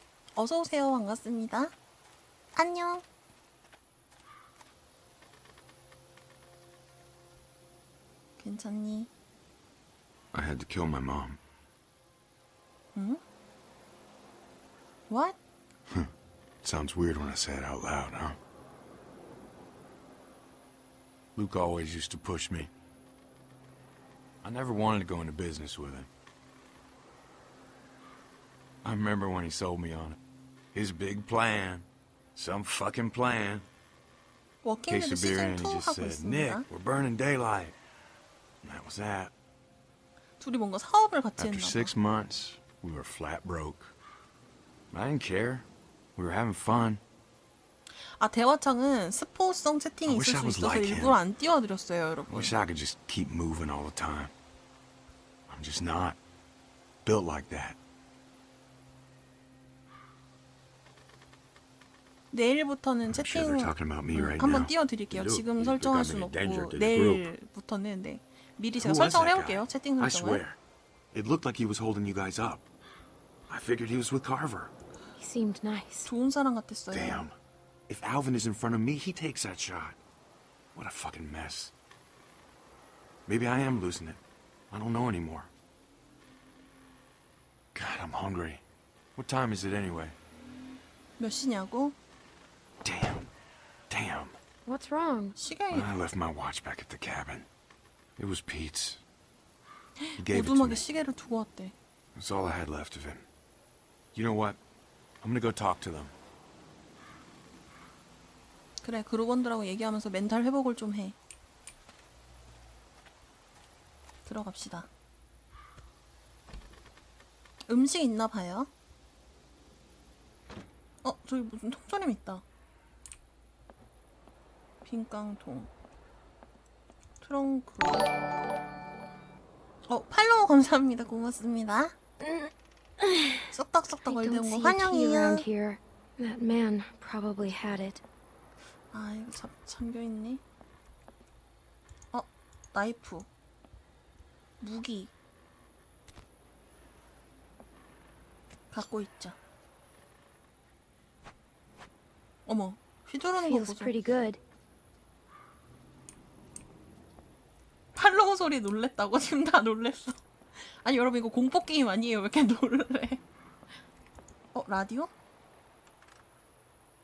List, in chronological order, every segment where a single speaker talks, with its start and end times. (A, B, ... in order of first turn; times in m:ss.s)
0:00.4-0:01.7 A
0:02.5-0:03.0 A
0:08.4-0:09.1 A
0:10.3-0:11.4 B
0:12.9-0:13.2 A
0:15.1-0:15.4 A
0:16.6-0:18.4 B
0:21.4-0:22.7 B
0:24.4-0:26.1 B
0:28.8-0:30.2 B
0:30.7-0:33.6 B
0:34.6-0:36.7 A
0:34.9-0:37.8 B
0:38.6-0:39.3 B
0:40.4-0:41.9 A
0:41.4-0:43.9 B
0:44.9-0:47.0 B
0:48.2-0:52.5 A
0:50.0-0:51.2 B
0:52.3-0:54.3 B
0:55.5-0:56.2 B
0:57.0-0:57.8 B
1:02.3-1:10.4 A
1:03.1-1:07.3 B
1:08.8-1:10.6 B
1:11.1-1:12.7 B
1:13.5-1:14.7 B
1:15.2-1:16.1 C
1:16.0-1:17.2 A
1:16.9-1:17.3 B
1:17.9-1:20.0 B
1:20.7-1:21.7 B
1:23.3-1:24.2 B
1:24.7-1:25.5 B
1:27.7-1:28.6 B
1:29.2-1:30.2 B
1:31.2-1:32.0 A
1:32.8-1:33.3 B
1:33.9-1:34.3 B
1:34.6-1:35.4 C
1:35.4-1:35.9 A
1:35.7-1:37.5 B
1:38.2-1:39.0 B
1:40.1-1:41.7 A
1:40.2-1:40.8 B
1:42.2-1:43.2 B
1:44.1-1:44.6 B
1:45.2-1:46.1 B
1:48.8-1:51.2 A
1:54.2-1:54.9 A
1:57.7-1:58.7 A
2:01.0-2:02.4 A
2:04.8-2:05.7 A
2:07.2-2:08.0 A
2:09.9-2:11.9 A
2:12.2-2:13.5 C
2:13.5-2:15.4 A
2:14.0-2:18.0 C
2:18.9-2:20.4 A
2:22.1-2:23.2 A
2:24.6-2:25.1 A
2:28.7-2:29.4 A
2:32.5-2:33.9 A
2:33.4-2:34.4 C
2:37.9-2:43.2 A
2:44.5-2:45.1 A